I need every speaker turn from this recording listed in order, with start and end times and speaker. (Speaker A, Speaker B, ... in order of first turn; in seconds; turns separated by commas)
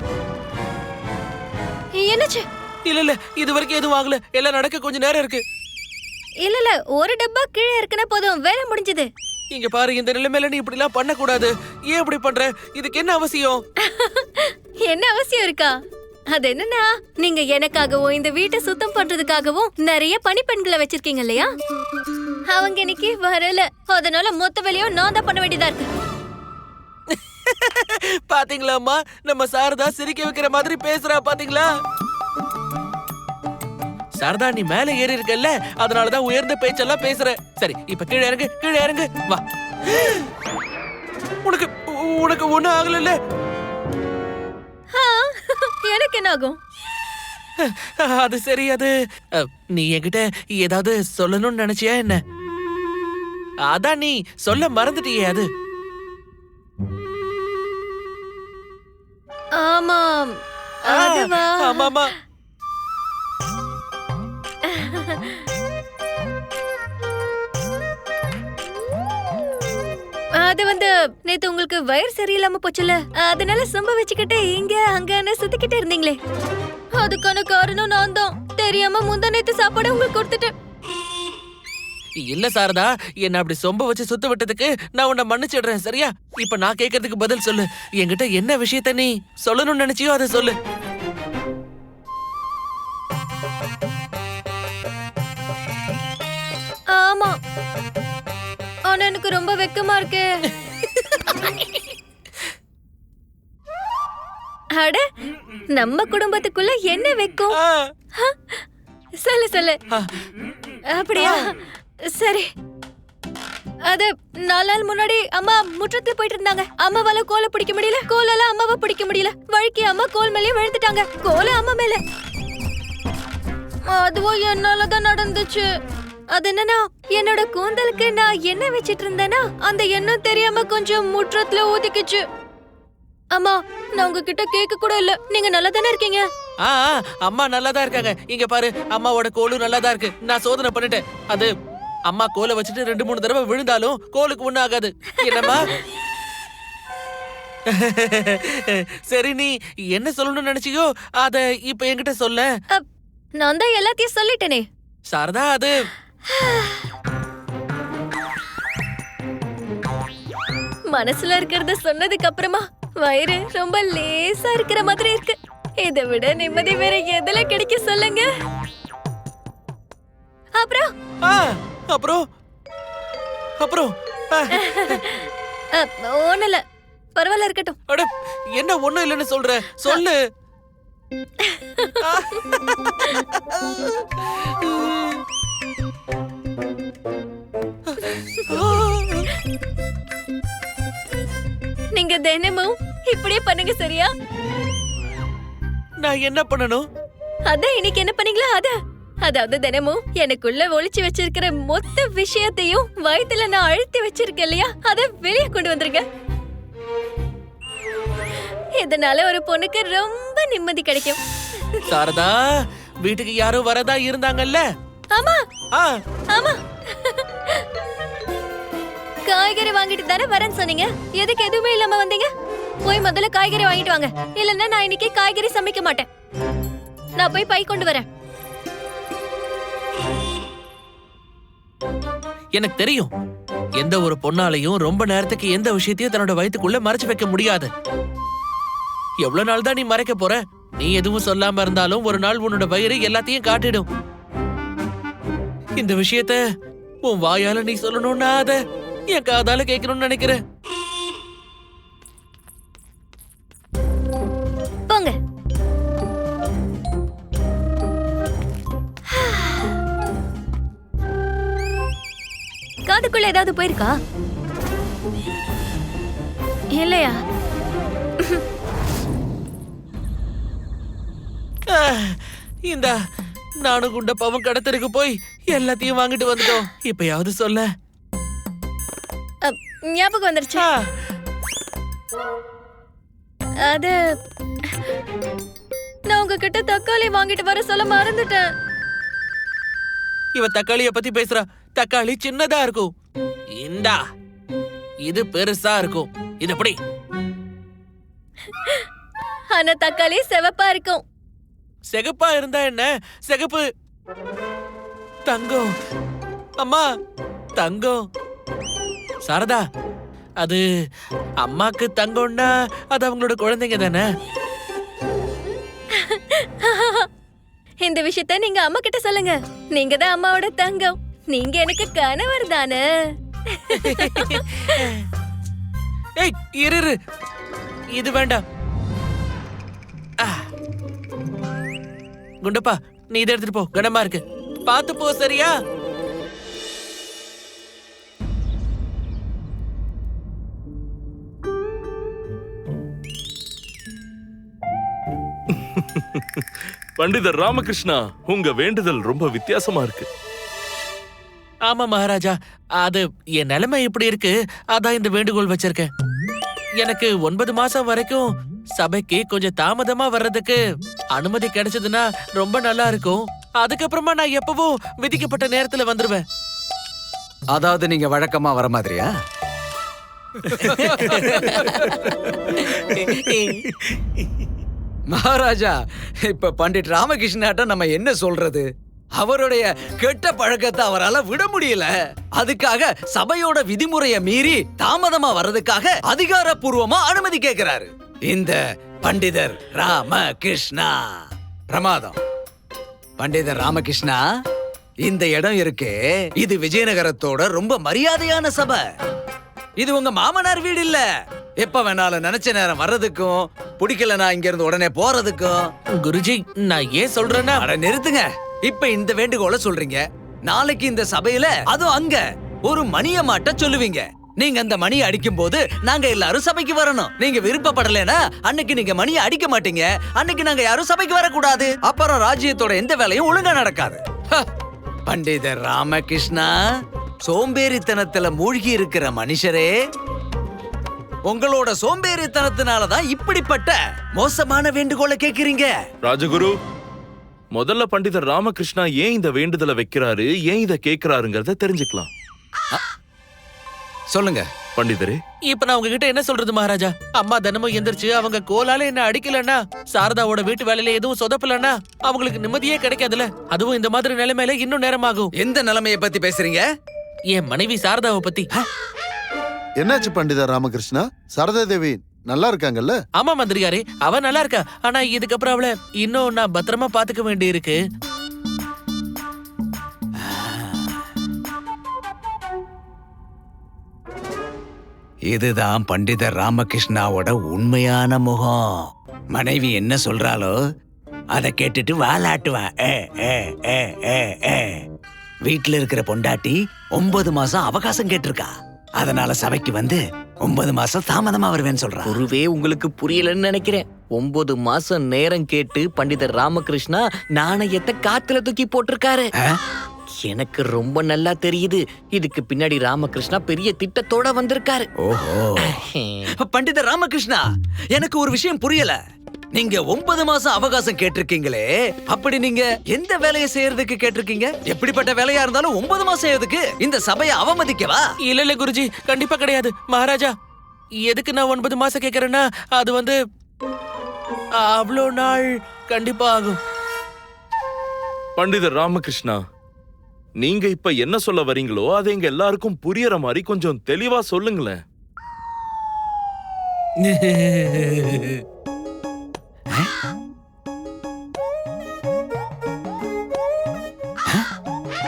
Speaker A: 1.9-2.5, Speaker B: 2.8-5.4, Speaker A: 6.4-9.1, Speaker B: 9.5-13.6, Speaker A: 13.8-15.7, Speaker A: 16.3-21.5, Speaker A: 22.5-25.9, Speaker B: 27.1-31.7, Speaker B: 34.2-40.2, Speaker B: 41.4-43.2, Speaker A: 44.9-46.6, Speaker B: 47.6-52.2, Speaker B: 53.6-55.5, Speaker A: 59.5-60.3, Speaker A: 60.9-62.0, Speaker B: 60.9-62.1, Speaker A: 64.7-65.4, Speaker A: 70.4-76.2, Speaker A: 77.0-80.5, Speaker B: 82.2-90.6, Speaker A: 96.9-97.3, Speaker A: 98.9-100.3, Speaker B: 100.7-101.6, Speaker A: 104.8-105.0, Speaker A: 105.7-107.6, Speaker B: 107.6-107.9, Speaker A: 108.2-108.6, Speaker A: 109.2-109.8, Speaker A: 110.9-111.6, Speaker B: 111.2-111.5, Speaker A: 112.1-112.4, Speaker A: 113.9-122.0, Speaker A: 123.9-125.7, Speaker A: 126.3-132.2, Speaker A: 133.3-136.3, Speaker B: 136.6-141.5, Speaker B: 142.1-145.7, Speaker A: 145.2-145.5, Speaker B: 147.7-152.5, Speaker A: 153.4-154.7, Speaker B: 155.1-155.7, Speaker A: 156.3-156.8, Speaker A: 160.9-168.3, Speaker A: 170.6-170.9, Speaker B: 171.2-172.2, Speaker B: 173.6-175.0, Speaker A: 174.5-176.6, Speaker A: 177.2-177.8, Speaker B: 177.9-180.2, Speaker A: 181.4-182.4, Speaker B: 182.0-183.2, Speaker B: 184.2-185.2, Speaker B: 187.9-189.3, Speaker A: 191.9-194.1, Speaker B: 196.0-196.8, Speaker A: 197.5-206.0, Speaker A: 208.8-211.2, Speaker B: 211.9-212.4, Speaker B: 213.0-214.7, Speaker A: 215.1-215.4, Speaker A: 216.3-217.7, Speaker A: 219.2-222.3, Speaker A: 222.8-226.1, Speaker A: 227.2-228.1, Speaker B: 232.5-233.1, Speaker B: 233.8-237.7, Speaker B: 239.2-243.9, Speaker B: 245.8-246.4, Speaker B: 247.1-250.4, Speaker A: 254.9-255.1, Speaker A: 259.1-259.8, Speaker A: 262.9-263.9, Speaker A: 266.8-267.1, Speaker B: 271.7-272.9, Speaker B: 273.6-277.7, Speaker A: 279.4-280.7, Speaker A: 283.6-284.0, Speaker A: 286.1-288.4, Speaker B: 290.4-292.9, Speaker B: 293.6-294.0, Speaker B: 295.0-296.8, Speaker A: 299.5-301.0, Speaker B: 301.9-303.6, Speaker B: 305.3-305.7, Speaker B: 307.6-308.0, Speaker B: 309.2-309.6, Speaker B: 311.4-314.1, Speaker A: 315.9-317.1, Speaker A: 317.8-322.9, Speaker A: 323.5-324.8, Speaker B: 323.8-325.0, Speaker B: 326.2-326.9, Speaker B: 327.9-328.4, Speaker B: 332.4-335.5, Speaker C: 345.5-346.4, Speaker C: 347.0-350.1, Speaker B: 351.7-355.9, Speaker B: 356.8-360.6, Speaker B: 361.1-366.2, Speaker D: 367.5-369.1, Speaker D: 370.6-372.2, Speaker E: 370.8-371.3, Speaker E: 372.9-373.6, Speaker D: 375.1-391.1, Speaker D: 391.7-392.2, Speaker D: 393.2-394.2, Speaker D: 395.0-398.9, Speaker D: 399.8-401.1, Speaker D: 401.6-405.6, Speaker B: 406.0-407.6, Speaker D: 407.6-424.4, Speaker D: 425.1-426.6, Speaker D: 427.2-429.7, Speaker D: 431.3-435.7, Speaker C: 436.0-436.6, Speaker C: 437.5-442.1, Speaker D: 444.1-444.4, Speaker C: 444.8-445.2, Speaker B: 445.5-455.3, Speaker D: 455.4-456.7, Speaker B: 457.3-458.5, Speaker F: 459.8-463.0, Speaker B: 463.2-467.8, Speaker D: 470.2-471.0, Speaker D: 475.3-480.6, Speaker D: 481.3-484.9, Speaker D: 485.4-492.2, Speaker E: 492.1-499.3, Speaker E: 500.2-504.9, Speaker D: 505.0-505.8, Speaker E: 505.6-506.3, Speaker D: 506.4-509.0, Speaker D: 509.5-518.0, Speaker B: 518.3-520.3, Speaker B: 521.0-523.1, Speaker B: 524.6-526.5, Speaker C: 528.4-529.4, Speaker C: 530.4-534.8, Speaker B: 537.0-538.4